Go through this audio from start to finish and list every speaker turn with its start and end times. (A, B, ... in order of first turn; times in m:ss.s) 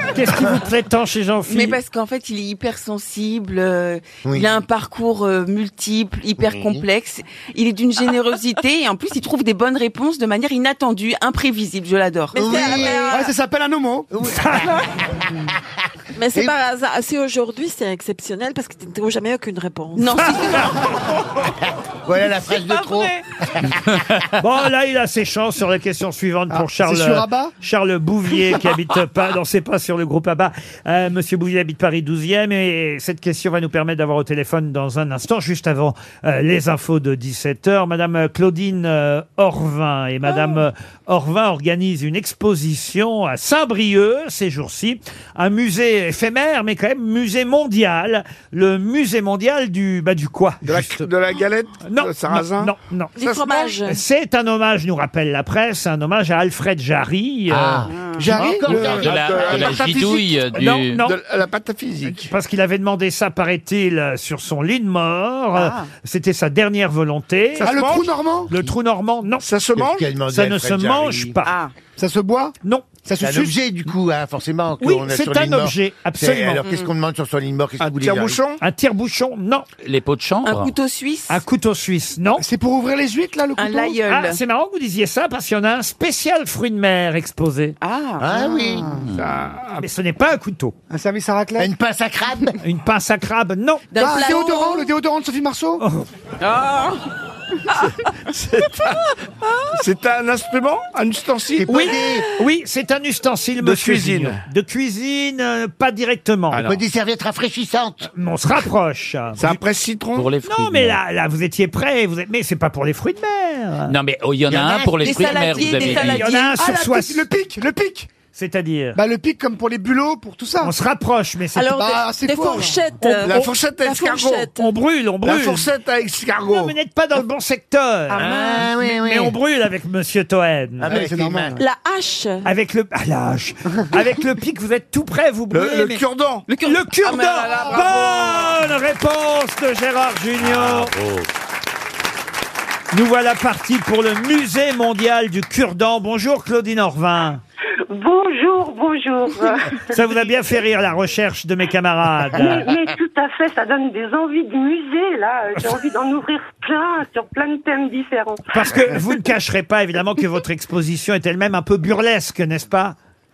0:00.1-0:01.8 A
0:00.3-0:00.6 B
0:01.4-0:12.4 C
0:04.2-0:04.6 B
0:06.4-0:06.8 B
0:12.3-0:13.3 D
0:12.3-0:13.3 B
0:13.1-0:14.1 E
0:14.1-0:15.5 B
0:14.2-0:14.8 A
0:16.2-0:20.5 D
0:19.9-0:21.0 C
0:22.0-0:24.1 B
0:24.3-0:51.1 A
0:26.5-0:27.5 E
0:50.6-0:52.7 F
0:51.8-0:57.9 A
0:53.2-0:54.0 D
0:53.2-0:53.7 F
0:57.5-0:59.9 B
0:58.3-1:02.3 F
0:59.0-1:01.1 G
1:00.6-1:01.1 A
1:02.1-1:07.7 A
1:05.5-1:05.9 C
1:07.6-1:08.2 F
1:07.6-1:08.5 E
1:08.5-1:09.5 A
1:09.4-1:10.0 F
1:09.8-1:11.4 B
1:10.3-1:11.5 A
1:11.4-1:11.7 C
1:12.0-1:13.5 E
1:13.2-1:18.4 B
1:14.8-1:16.6 A
1:17.8-1:18.6 F
1:18.6-1:19.6 A
1:19.8-1:20.7 G
1:20.4-1:21.4 C
1:21.3-1:22.4 A
1:22.4-1:23.7 E
1:23.6-1:24.4 C
1:24.0-1:27.8 A
1:27.8-1:28.8 C
1:28.2-1:29.1 B
1:29.0-1:29.3 G
1:29.1-1:29.8 F
1:29.8-1:30.7 A
1:30.9-1:31.7 E
1:31.6-1:32.6 B
1:32.6-1:34.3 A
1:33.9-1:34.2 C
1:34.0-1:35.8 E
1:34.1-1:34.9 D
1:35.8-1:36.1 A
1:36.4-1:37.0 C
1:37.9-1:39.1 F
1:39.7-1:41.7 F
1:41.5-1:42.3 B
1:41.7-1:46.6 A
1:43.6-1:44.4 F
1:46.5-1:46.8 F
1:46.6-1:48.1 B
1:48.1-1:49.6 A
1:49.4-1:50.3 F
1:50.1-1:51.0 G
1:50.4-1:53.9 A
1:53.9-1:56.3 G
1:54.5-1:56.0 B
1:55.0-1:56.6 D
1:56.0-1:57.3 A
1:56.6-1:58.1 E
1:58.3-1:59.0 A
1:58.9-2:00.7 E
2:00.6-2:01.8 A
2:01.5-2:04.6 D
2:01.7-2:02.8 E
2:03.0-2:03.5 A
2:03.2-2:04.5 F
2:04.5-2:05.7 A
2:05.2-2:06.7 F
2:06.4-2:10.9 A
2:08.1-2:09.4 B
2:10.8-2:11.6 B
2:10.8-2:11.6 E
2:11.6-2:12.5 D
2:12.4-2:16.0 A
2:15.5-2:16.4 F
2:16.5-2:18.6 C
2:16.6-2:20.9 A
2:20.4-2:21.3 G
2:22.9-2:27.4 A
2:27.9-2:29.9 H
2:29.9-2:32.7 A
2:32.3-2:38.9 H
2:38.5-2:43.0 A